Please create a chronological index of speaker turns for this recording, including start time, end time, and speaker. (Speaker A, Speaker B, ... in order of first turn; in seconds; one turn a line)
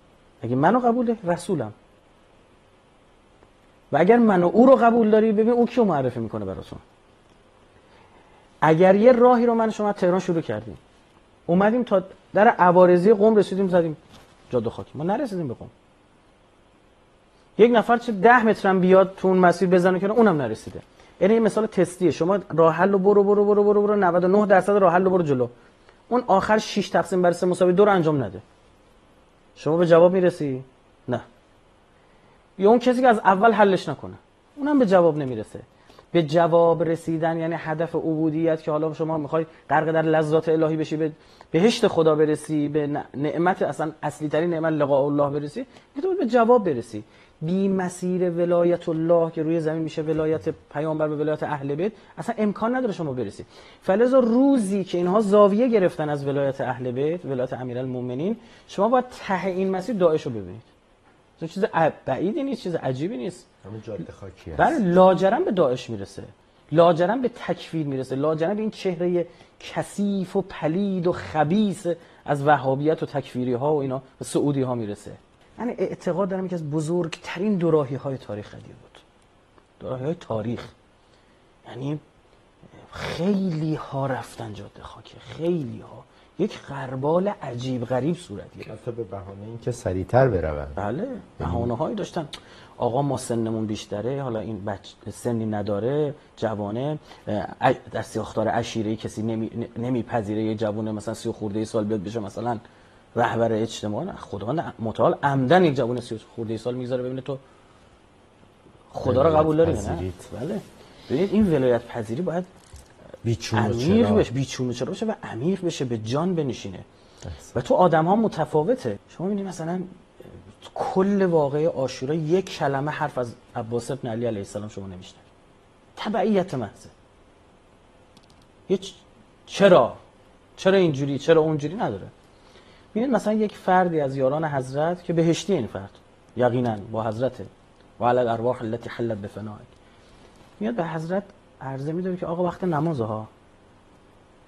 Speaker A: 0.4-1.7
Speaker A: 3.9-6.8
Speaker A: 8.6-10.8
Speaker A: 11.5-14.0
Speaker A: 14.5-15.7
Speaker A: 17.6-25.5
Speaker A: 26.1-28.4
Speaker A: 29.6-31.2
Speaker A: 32.6-60.6
Speaker A: 61.4-63.5
Speaker B: 63.6-64.8
Speaker A: 64.5-79.0
Speaker A: 79.8-80.7
Speaker A: 81.7-82.0
Speaker A: 82.9-88.7
Speaker B: 88.6-90.8
Speaker A: 90.8-102.6
Speaker B: 91.4-91.7
Speaker A: 103.2-107.4
Speaker A: 108.9-112.5
Speaker B: 109.0-110.2
Speaker B: 113.2-114.3
Speaker A: 113.5-116.8
Speaker B: 117.3-117.5
Speaker A: 117.5-119.9
Speaker A: 120.5-125.3
Speaker A: 126.0-126.9
Speaker A: 128.7-130.0
Speaker A: 130.6-132.1
Speaker A: 132.9-139.7
Speaker A: 140.6-143.3